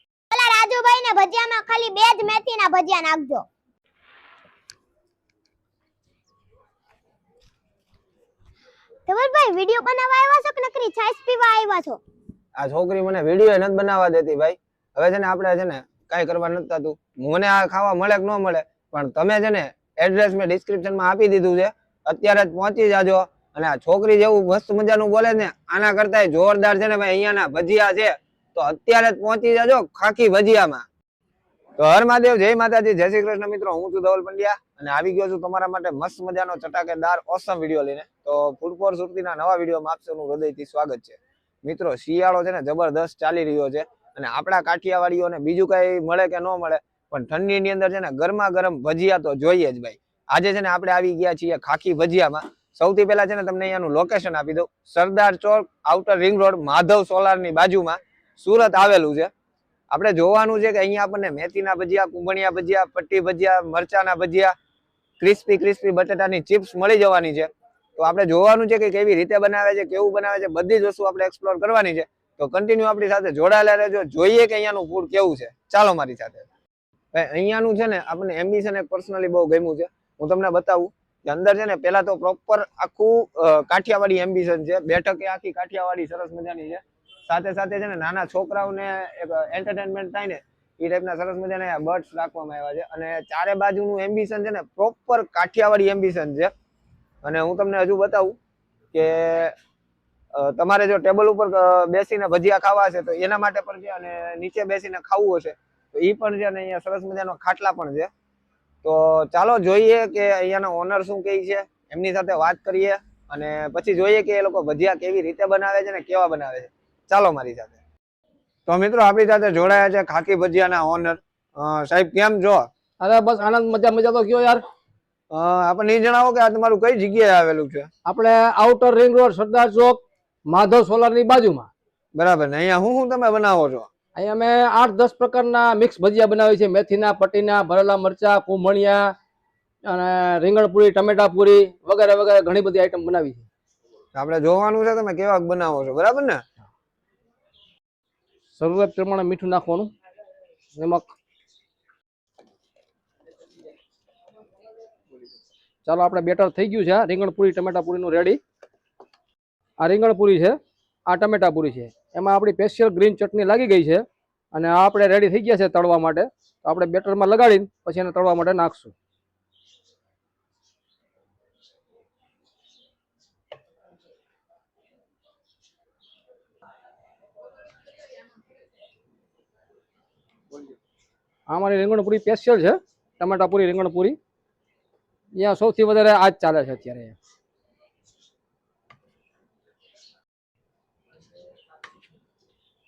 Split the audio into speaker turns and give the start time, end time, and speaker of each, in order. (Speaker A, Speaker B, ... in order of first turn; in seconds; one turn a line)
Speaker A: 0.3-3.5
Speaker A: 9.1-12.0
Speaker B: 12.6-30.9
Speaker B: 31.8-59.3
Speaker B: 59.9-64.5
Speaker B: 65.2-76.5
Speaker B: 77.1-96.5
Speaker B: 97.2-98.4
Speaker B: 98.9-99.5
Speaker B: 100.3-108.1
Speaker B: 108.8-117.8
Speaker B: 118.7-122.7
Speaker C: 123.0-124.6
Speaker B: 125.3-127.9
Speaker C: 128.1-131.7
Speaker B: 132.2-133.9
Speaker C: 134.2-139.1
Speaker C: 139.8-143.5
Speaker B: 144.1-146.4
Speaker C: 148.6-149.9
Speaker C: 150.8-151.1
Speaker C: 155.8-158.4
Speaker C: 159.8-168.9
Speaker C: 181.5-184.2
Speaker C: 185.3-187.2